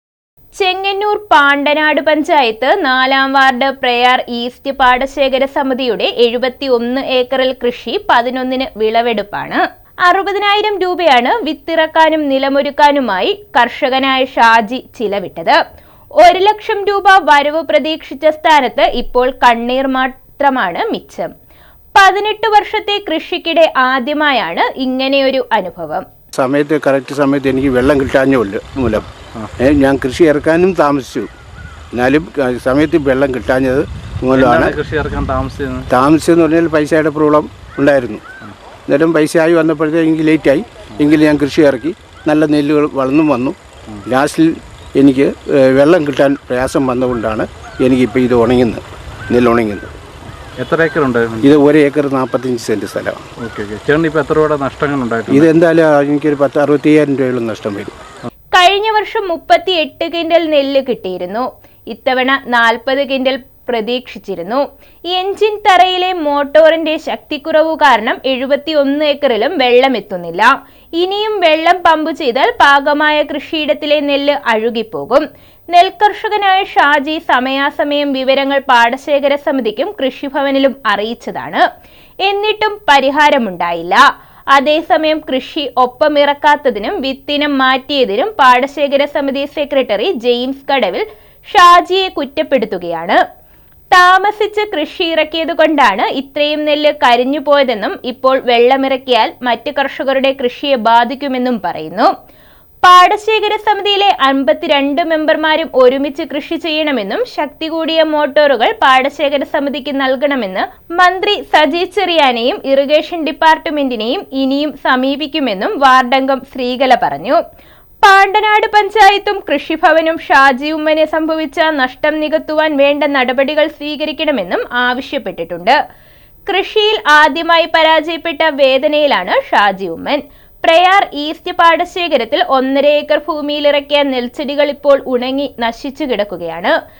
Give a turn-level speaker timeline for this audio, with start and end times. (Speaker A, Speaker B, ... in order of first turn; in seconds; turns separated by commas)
Speaker A: 0.6-15.6, Speaker A: 16.2-21.3, Speaker A: 22.0-26.1, Speaker B: 26.3-31.3, Speaker B: 31.9-34.8, Speaker C: 34.3-35.9, Speaker B: 35.9-38.2, Speaker B: 38.9-49.9, Speaker C: 50.6-51.5, Speaker B: 51.4-53.2, Speaker C: 53.4-55.5, Speaker B: 55.3-57.9, Speaker A: 58.5-81.6, Speaker A: 82.3-84.0, Speaker A: 84.5-93.2, Speaker A: 93.9-102.1, Speaker A: 102.8-117.4, Speaker A: 118.0-125.8, Speaker A: 126.5-136.7